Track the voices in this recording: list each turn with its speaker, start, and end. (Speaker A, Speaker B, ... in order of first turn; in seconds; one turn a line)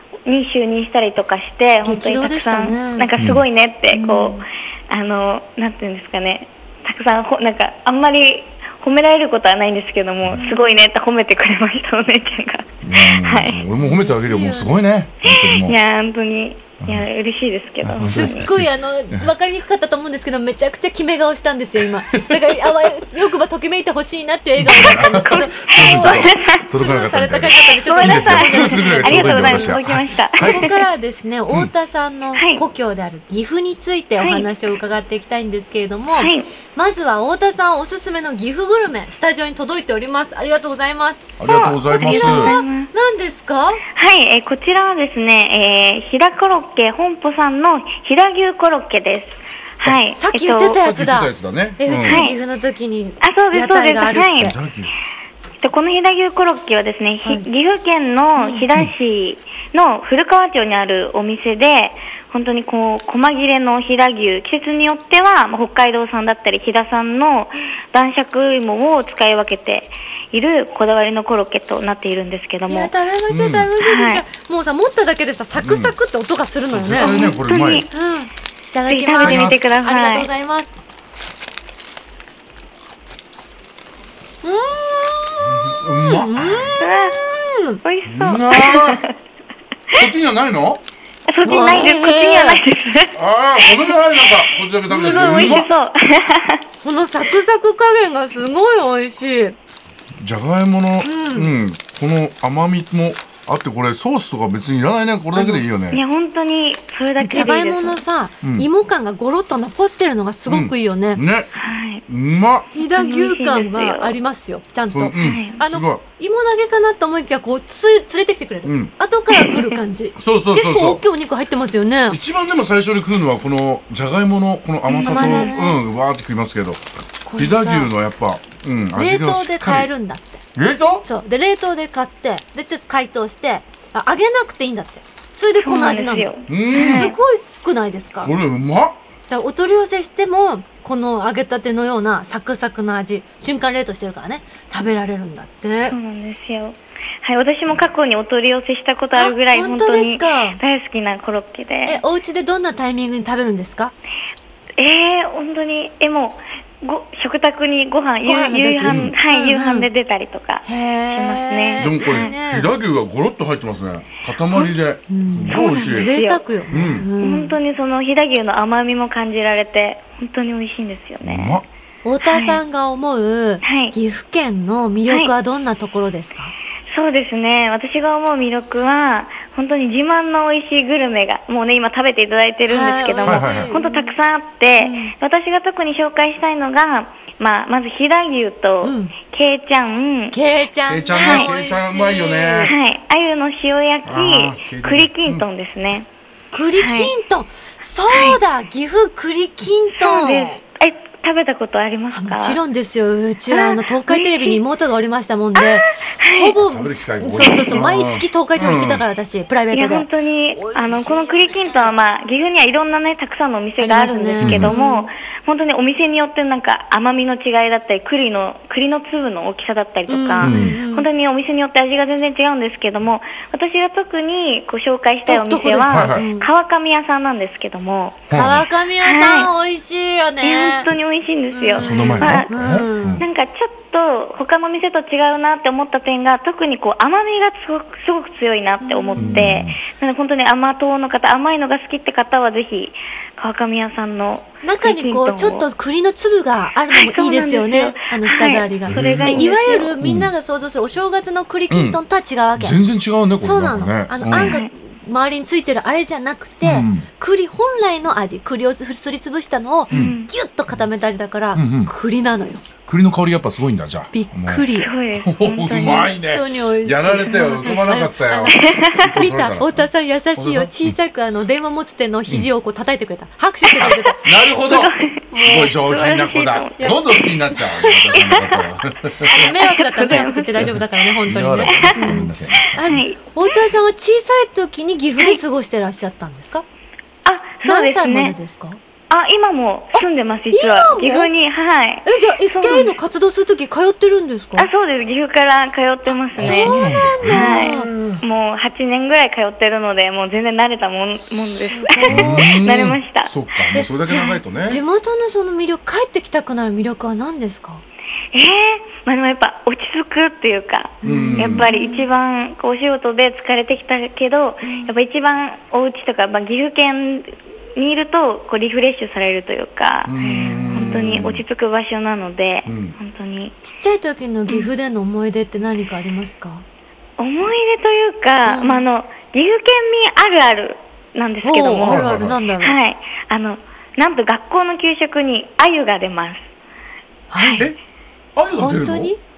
Speaker A: 0.2-13.6
Speaker B: 1.8-3.1
Speaker C: 3.2-3.4
Speaker B: 3.9-4.5
Speaker B: 10.4-10.8
Speaker C: 12.8-15.8
Speaker B: 13.8-14.8
Speaker A: 15.2-18.5
Speaker C: 17.8-19.3
Speaker B: 18.0-29.8
Speaker C: 22.1-22.4
Speaker C: 24.6-30.7
Speaker A: 24.9-26.6
Speaker A: 27.8-30.8
Speaker B: 30.4-43.8
Speaker A: 32.4-32.6
Speaker A: 34.2-34.5
Speaker A: 36.2-36.5
Speaker C: 41.4-42.6
Speaker A: 41.9-42.9
Speaker A: 44.0-50.8
Speaker B: 50.1-54.5
Speaker C: 50.8-52.2
Speaker A: 52.0-52.4
Speaker A: 53.2-54.5
Speaker C: 54.4-54.9
Speaker A: 55.6-72.9
Speaker B: 58.4-58.6
Speaker B: 72.7-77.3
Speaker C: 73.3-73.7
Speaker A: 73.8-74.2
Speaker C: 75.6-76.0
Speaker C: 76.7-77.9
Speaker A: 77.0-77.9
Speaker B: 77.9-80.7
Speaker A: 78.9-80.3
Speaker C: 79.2-79.6
Speaker B: 84.4-87.8
Speaker C: 85.4-86.8
Speaker A: 86.8-87.2
Speaker A: 87.8-89.1
Speaker C: 88.1-89.0
Speaker C: 90.0-90.8
Speaker A: 91.3-93.2
Speaker B: 91.4-92.6
Speaker C: 93.1-95.7
Speaker B: 94.9-95.6
Speaker A: 95.0-96.6
Speaker B: 96.8-99.6
Speaker C: 100.2-106.0
Speaker B: 101.0-101.5
Speaker B: 105.4-105.6
Speaker A: 105.9-108.0
Speaker B: 107.2-111.2
Speaker C: 108.4-108.7
Speaker C: 110.5-111.5
Speaker A: 111.5-112.0
Speaker C: 112.1-112.7
Speaker B: 112.7-122.2
Speaker A: 112.8-114.2
Speaker C: 114.9-116.0
Speaker A: 115.2-115.6
Speaker C: 118.6-118.9
Speaker C: 120.2-121.0
Speaker C: 122.1-126.8
Speaker B: 124.9-125.8
Speaker B: 127.2-127.9
Speaker C: 127.4-129.9
Speaker B: 128.9-130.4
Speaker C: 130.6-131.1
Speaker B: 131.0-138.3
Speaker A: 135.6-137.2
Speaker C: 136.5-137.1
Speaker C: 138.2-139.0
Speaker B: 139.3-146.0
Speaker A: 145.9-152.0
Speaker B: 149.1-150.6
Speaker B: 151.9-153.9
Speaker A: 154.8-162.3
Speaker B: 158.2-159.9
Speaker C: 158.8-159.2
Speaker B: 160.7-162.7
Speaker C: 161.8-166.1
Speaker B: 164.5-167.6
Speaker A: 165.5-171.6
Speaker C: 166.7-167.1
Speaker C: 171.2-171.7
Speaker B: 172.1-176.5
Speaker A: 172.3-172.6
Speaker A: 173.6-174.0
Speaker A: 176.9-190.4
Speaker B: 182.7-184.1
Speaker C: 183.2-183.8
Speaker B: 184.8-185.1
Speaker B: 188.8-189.1
Speaker B: 190.3-192.8
Speaker C: 190.9-192.8
Speaker A: 191.2-191.5
Speaker A: 192.7-196.1
Speaker C: 194.1-195.4
Speaker B: 196.5-200.6
Speaker A: 196.8-197.1
Speaker A: 198.1-198.4
Speaker A: 200.0-202.6
Speaker B: 202.1-212.0
Speaker A: 203.5-204.6
Speaker A: 205.6-206.6
Speaker C: 206.6-209.0
Speaker A: 209.7-228.4
Speaker B: 213.8-215.1
Speaker C: 214.4-214.8
Speaker B: 220.1-221.1
Speaker C: 220.4-220.8
Speaker B: 225.3-226.5
Speaker C: 225.9-226.3
Speaker C: 228.3-228.7
Speaker B: 228.3-230.9
Speaker A: 229.0-229.5
Speaker A: 230.4-232.6
Speaker B: 231.5-233.2
Speaker C: 231.8-233.2
Speaker A: 233.2-245.7
Speaker B: 238.8-239.5
Speaker C: 239.2-239.8
Speaker B: 244.6-252.8
Speaker A: 246.9-249.9
Speaker C: 248.9-249.5
Speaker C: 250.0-250.3
Speaker C: 251.7-252.0
Speaker C: 252.6-254.6
Speaker B: 253.4-262.6
Speaker A: 254.3-254.7
Speaker C: 256.6-257.1
Speaker C: 259.9-260.2
Speaker A: 259.9-260.3
Speaker C: 261.6-261.9
Speaker C: 262.9-271.0
Speaker B: 264.1-264.9
Speaker A: 264.8-266.1
Speaker B: 265.8-274.3
Speaker A: 268.5-269.2
Speaker C: 273.8-279.3
Speaker A: 274.6-277.0
Speaker B: 275.3-275.7
Speaker B: 276.8-277.1
Speaker B: 277.8-278.1
Speaker A: 278.1-278.6
Speaker B: 279.2-286.6
Speaker A: 279.4-280.7
Speaker C: 280.6-283.0
Speaker A: 281.7-282.2
Speaker A: 282.8-283.4
Speaker A: 287.2-288.4
Speaker B: 287.6-288.8
Speaker A: 289.1-292.9
Speaker B: 289.9-291.3
Speaker B: 292.1-294.7
Speaker A: 294.6-303.3
Speaker B: 296.3-297.9
Speaker C: 296.4-298.1
Speaker B: 301.7-302.5
Speaker C: 302.1-304.8
Speaker B: 303.7-307.8
Speaker A: 308.3-320.2
Speaker B: 311.0-312.1
Speaker C: 311.0-311.7
Speaker B: 314.6-314.9
Speaker C: 320.1-321.4
Speaker B: 320.2-321.2
Speaker A: 320.7-323.6
Speaker C: 322.7-323.0
Speaker B: 323.6-326.6
Speaker A: 327.2-332.1
Speaker B: 328.5-328.9
Speaker B: 331.4-332.8
Speaker C: 331.8-332.4
Speaker A: 332.6-336.5
Speaker B: 337.3-337.7
Speaker A: 337.4-337.7
Speaker C: 338.4-339.1
Speaker B: 338.5-339.2